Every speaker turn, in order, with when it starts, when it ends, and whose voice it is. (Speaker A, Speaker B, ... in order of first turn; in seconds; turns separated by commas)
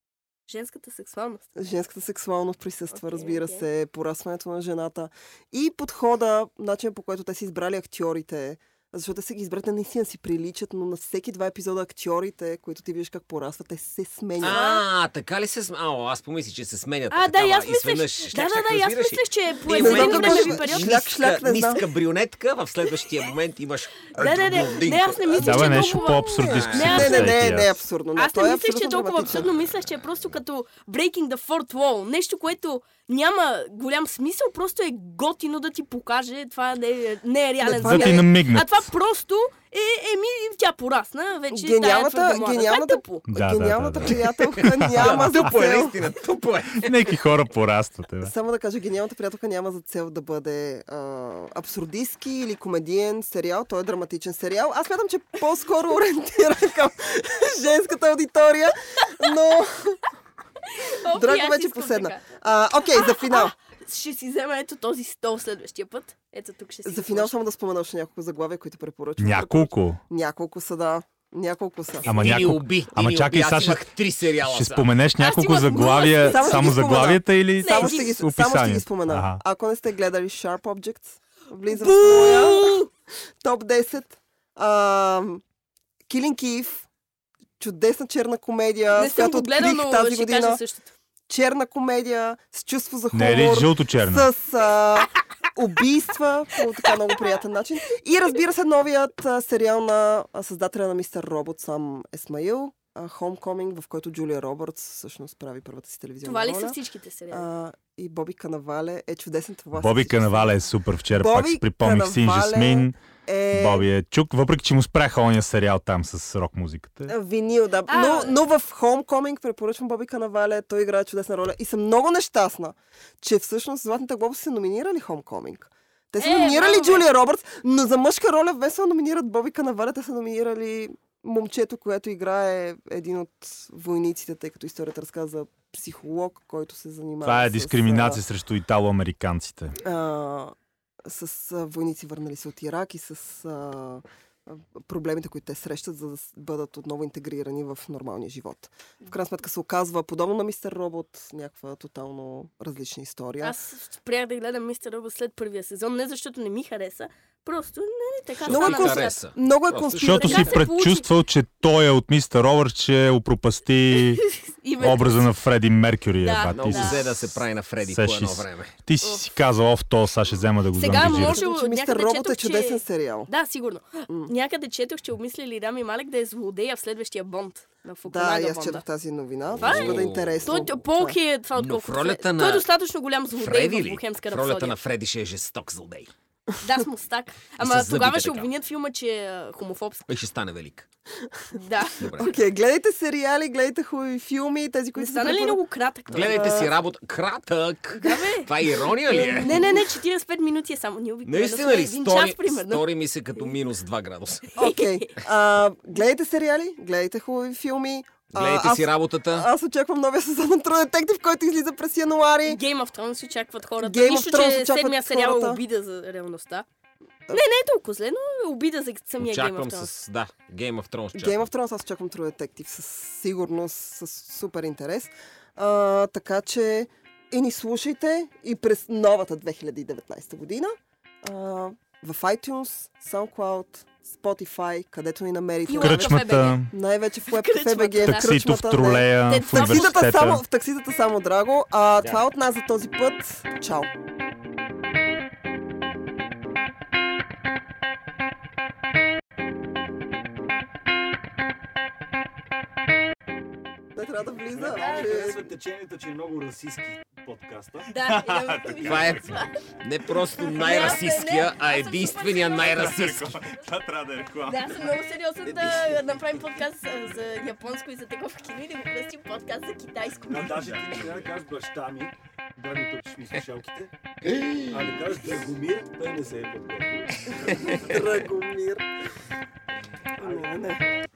Speaker A: 0.5-1.4, Speaker B: 1.6-14.6, Speaker A: 2.9-3.7, Speaker C: 14.4-25.4, Speaker A: 14.4-14.8, Speaker A: 17.1-20.9, Speaker B: 19.7-21.8, Speaker A: 24.1-27.4, Speaker B: 25.3-29.5, Speaker D: 25.4-27.8, Speaker C: 26.4-27.2, Speaker A: 28.1-43.3, Speaker B: 37.6-38.3, Speaker D: 37.8-38.9, Speaker B: 41.5-45.9, Speaker D: 43.3-45.2, Speaker C: 44.0-47.1, Speaker D: 46.8-48.3, Speaker B: 48.2-60.0, Speaker A: 60.6-62.2, Speaker B: 61.1-63.5, Speaker A: 62.9-67.3, Speaker B: 66.8-72.2, Speaker D: 69.2-70.0, Speaker C: 72.0-74.9, Speaker D: 72.0-73.9, Speaker D: 74.4-79.4, Speaker A: 75.2-76.8, Speaker B: 76.2-82.8, Speaker A: 77.6-78.1, Speaker A: 81.7-82.9, Speaker B: 83.4-85.4, Speaker B: 86.1-86.9, Speaker B: 87.6-90.6, Speaker A: 88.9-90.9, Speaker B: 91.3-106.8, Speaker D: 93.1-94.3, Speaker A: 106.2-107.5, Speaker B: 107.3-110.6, Speaker D: 109.7-112.9, Speaker B: 111.2-113.9, Speaker D: 113.5-117.1, Speaker B: 117.1-138.2, Speaker A: 117.9-118.3, Speaker A: 126.2-127.1, Speaker D: 137.2-139.8, Speaker B: 139.8-153.6, Speaker A: 153.4-159.2, Speaker C: 158.4-160.2, Speaker B: 158.5-160.6, Speaker D: 159.9-164.2, Speaker A: 160.2-161.1, Speaker A: 164.0-165.3, Speaker D: 164.8-171.4, Speaker A: 166.2-167.0, Speaker C: 166.5-168.7, Speaker A: 170.7-178.8, Speaker B: 170.9-173.3, Speaker B: 178.1-181.2, Speaker C: 179.5-180.5, Speaker A: 179.6-184.7, Speaker C: 181.6-182.7, Speaker C: 183.4-186.1, Speaker A: 186.6-190.1, Speaker C: 187.6-188.5, Speaker C: 190.1-190.9, Speaker A: 191.5-192.3, Speaker C: 192.0-192.3, Speaker B: 192.2-196.7, Speaker A: 194.9-196.7, Speaker C: 196.1-199.7, Speaker A: 197.9-198.5, Speaker B: 198.8-199.9, Speaker A: 199.3-202.8, Speaker C: 201.2-204.5, Speaker B: 204.5-212.6, Speaker A: 204.6-205.1, Speaker C: 208.3-209.5, Speaker A: 212.5-216.7, Speaker B: 213.8-215.6, Speaker A: 217.3-219.9, Speaker C: 219.2-221.5, Speaker B: 221.1-243.9, Speaker A: 235.7-236.6, Speaker D: 235.8-236.7, Speaker A: 237.3-238.4, Speaker D: 238.0-240.4, Speaker A: 239.3-240.0, Speaker B: 253.9-255.5, Speaker E: 254.6-257.9, Speaker A: 257.9-259.6, Speaker D: 258.0-259.1, Speaker C: 258.8-263.5, Speaker A: 260.4-262.9, Speaker D: 262.6-264.9, Speaker A: 264.4-270.6, Speaker E: 270.3-273.9, Speaker D: 270.4-271.3, Speaker E: 274.7-278.1, Speaker B: 277.7-278.9, Speaker B: 280.2-280.8